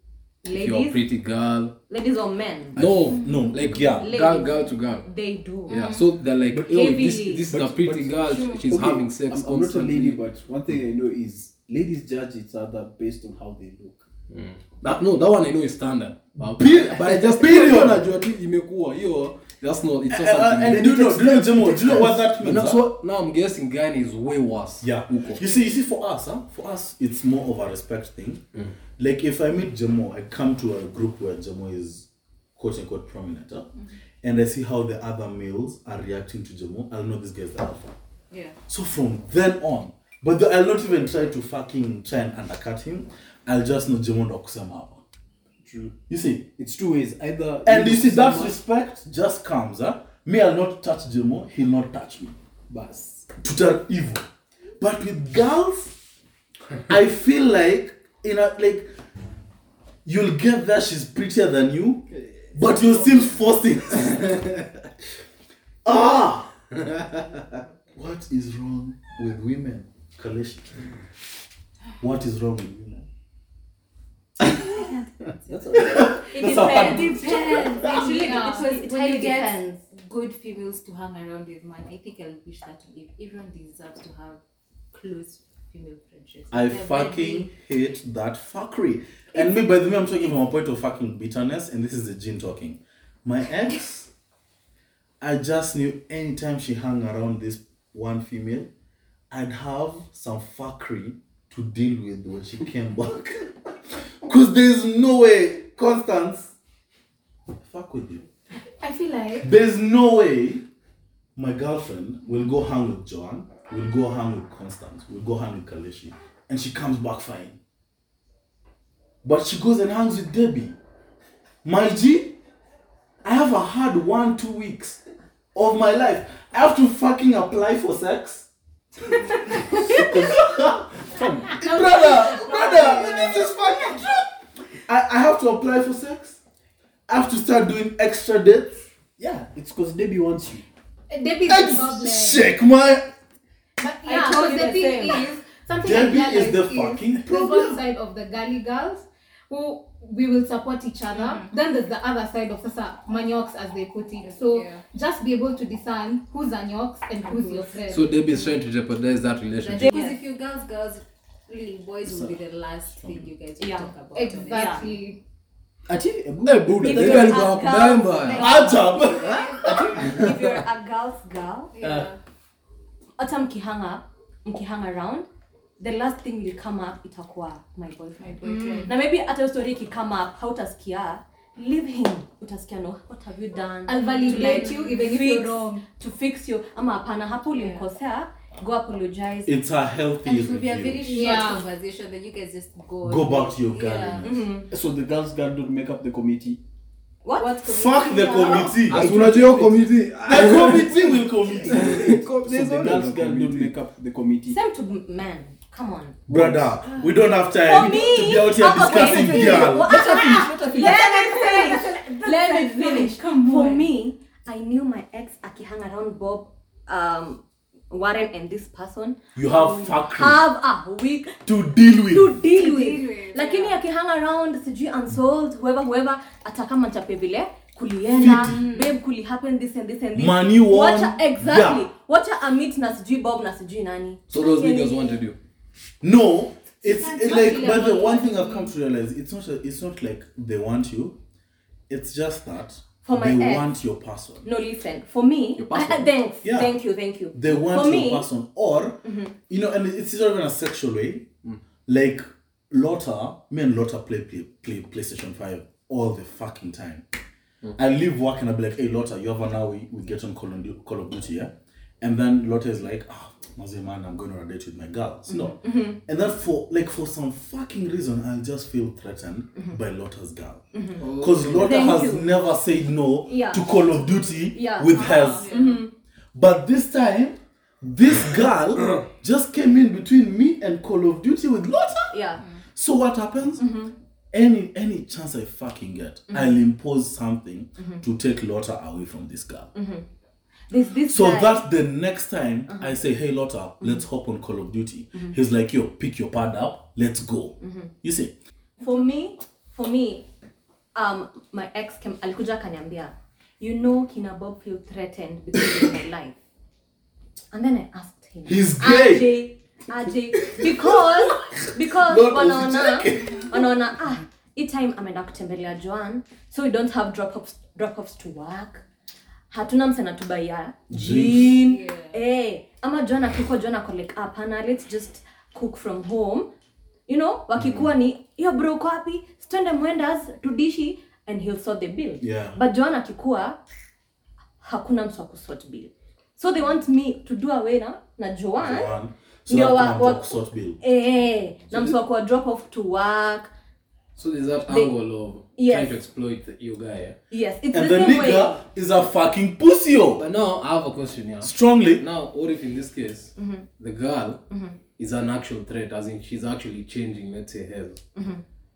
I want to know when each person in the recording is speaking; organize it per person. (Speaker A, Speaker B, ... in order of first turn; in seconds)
Speaker A: 0.4-1.0, 1.9-2.8, 4.0-6.0, 6.7-7.5, 76.3-79.8, 144.0-145.3, 159.8-160.2, 163.6-164.9, 166.8-171.7, 173.2-175.3, 175.8-189.5, 194.2-194.7, 197.2-198.8, 204.5-206.2, 207.6-221.4, 222.1-235.2, 243.0-243.7, 244.4-248.3, 249.0-249.3, 265.3-266.0, 270.7-271.0, 271.6-272.3, 273.3-275.9, 282.1-282.4, 283.6-283.9, 286.3-286.6, 287.8-288.0, 289.7-290.1, 290.7-291.7, 292.7-293.0, 297.6-297.9, 298.8-300.3, 300.9-306.4, 307.5-318.8, 319.5-326.5, 327.1-333.6, 334.6-339.0, 339.5-343.5, 344.7-344.9, 345.5-346.0, 347.3-348.6, 353.4-353.7, 354.5-354.8, 358.1-358.4
Speaker B: 0.5-1.7, 2.7-5.1, 5.7-10.2, 14.3-21.2, 21.8-25.5, 157.9-159.9, 166.4-168.6, 198.8-203.7, 234.3-235.3, 245.6-246.1, 271.0-272.0, 344.1-347.2, 350.2-354.4, 354.9-358.0
Speaker C: 2.8-4.1, 16.4-18.1, 20.1-22.9, 24.8-28.4, 29.0-33.7, 34.2-37.9, 38.7-45.0, 46.1-46.5, 47.6-52.4, 53.4-54.3, 54.8-56.0, 56.9-58.9, 60.0-64.5, 65.8-66.5, 67.9-70.9, 72.0-73.1, 74.4-74.9, 75.7-77.9, 86.5-94.1, 95.2-98.7, 99.3-106.5, 107.6-108.3, 109.4-110.6, 111.3-117.6, 119.2-120.8, 121.6-122.4, 123.2-125.0, 125.5-128.5, 129.1-130.9, 131.5-134.1, 134.8-136.4, 137.1-138.9, 141.4-143.1, 145.7-147.8, 168.3-170.1, 189.4-191.3, 193.0-194.5, 197.6-199.1, 200.3-202.2, 206.3-210.0, 219.3-220.4, 221.4-222.4, 228.1-228.6, 230.1-231.9, 236.0-241.2, 241.9-244.5, 246.4-246.7, 247.3-251.3, 251.8-257.0, 257.8-275.5, 276.3-282.1, 282.7-283.6, 284.3-289.7, 291.1-298.3, 308.4-309.3, 310.4-313.6, 320.9-321.6, 327.6-327.9, 332.2-332.6, 338.6-340.8, 347.7-350.2, 351.4-352.1
Speaker D: 5.7-6.1, 78.1-78.6, 108.8-109.5, 131.6-133.5, 141.1-142.5, 143.8-158.2, 164.1-165.2, 178.4-178.9, 183.9-185.8, 191.1-191.7, 210.1-213.5, 236.9-238.7
Speaker E: 6.5-14.1, 20.6-22.2, 45.6-46.0, 46.5-48.6, 52.7-53.3, 62.1-63.3, 75.5-76.2, 129.8-131.6, 139.2-140.7, 162.0-162.4, 165.9-167.6, 171.8-172.1, 194.7-196.6, 198.9-204.6, 206.3-206.8, 209.0-210.9
Speaker F: 38.3-38.6, 74.5-84.4, 84.9-87.5, 151.1-151.5, 154.2-154.8, 157.2-157.6, 159.6-165.0, 167.7-170.2, 171.7-172.2, 178.2-178.9, 184.2-184.9, 187.5-187.8, 190.2-194.3, 197.4-198.8, 210.7-213.8, 222.5-223.8, 228.5-228.9, 237.3-237.9, 274.9-275.8, 321.4-322.2